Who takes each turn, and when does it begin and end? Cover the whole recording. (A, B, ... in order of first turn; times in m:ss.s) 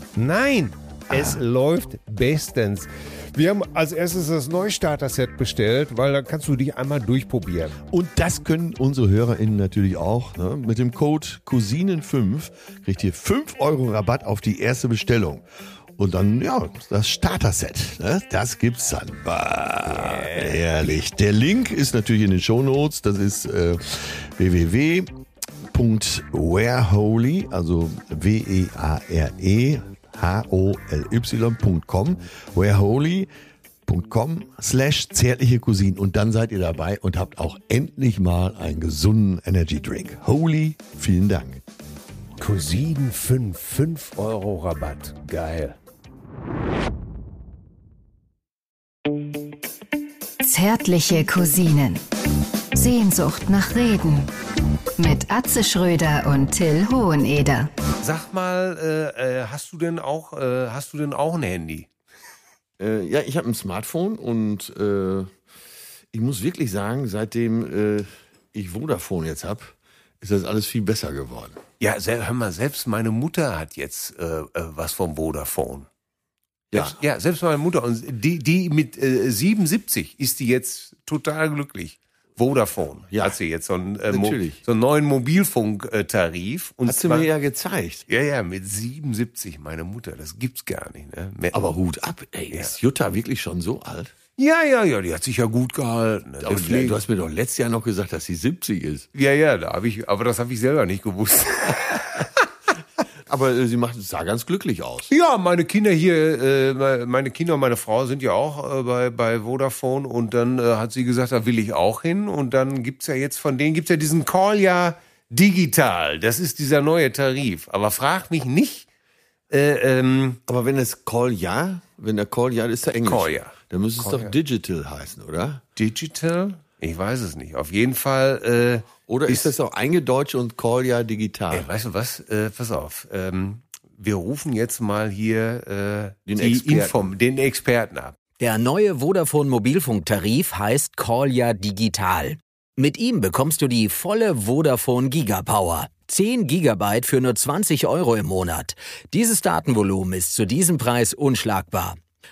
0:00.2-0:07.8 A
0:01.1-0:01.4 B
0:07.9-0:15.4 B
0:16.0-0:25.1 B
0:19.9-0:20.9 A
0:25.7-0:33.3 B
0:33.9-0:41.6 B
0:42.4-0:45.8 A
0:50.4-0:52.0 C
0:52.7-0:54.3 C
0:55.0-0:57.7 C
0:58.0-1:01.9 A
1:02.8-1:05.3 B
1:06.1-1:11.6 B
1:11.8-1:15.9 A
1:16.7-1:17.0 B
1:16.7-1:27.3 A
1:24.1-1:24.6 B
1:26.8-1:28.0 B
1:28.1-1:31.7 A
1:31.5-1:34.1 B
1:34.4-1:37.0 A
1:36.4-1:39.1 B
1:39.2-1:42.3 A
1:43.3-1:45.1 B
1:45.1-1:58.9 A
1:59.5-2:00.4 A
2:00.5-2:05.6 B
2:03.0-2:04.4 A
2:05.8-2:09.5 A
2:09.1-2:11.7 B
2:11.5-2:18.1 A
2:16.3-2:17.1 B
2:18.4-2:32.0 D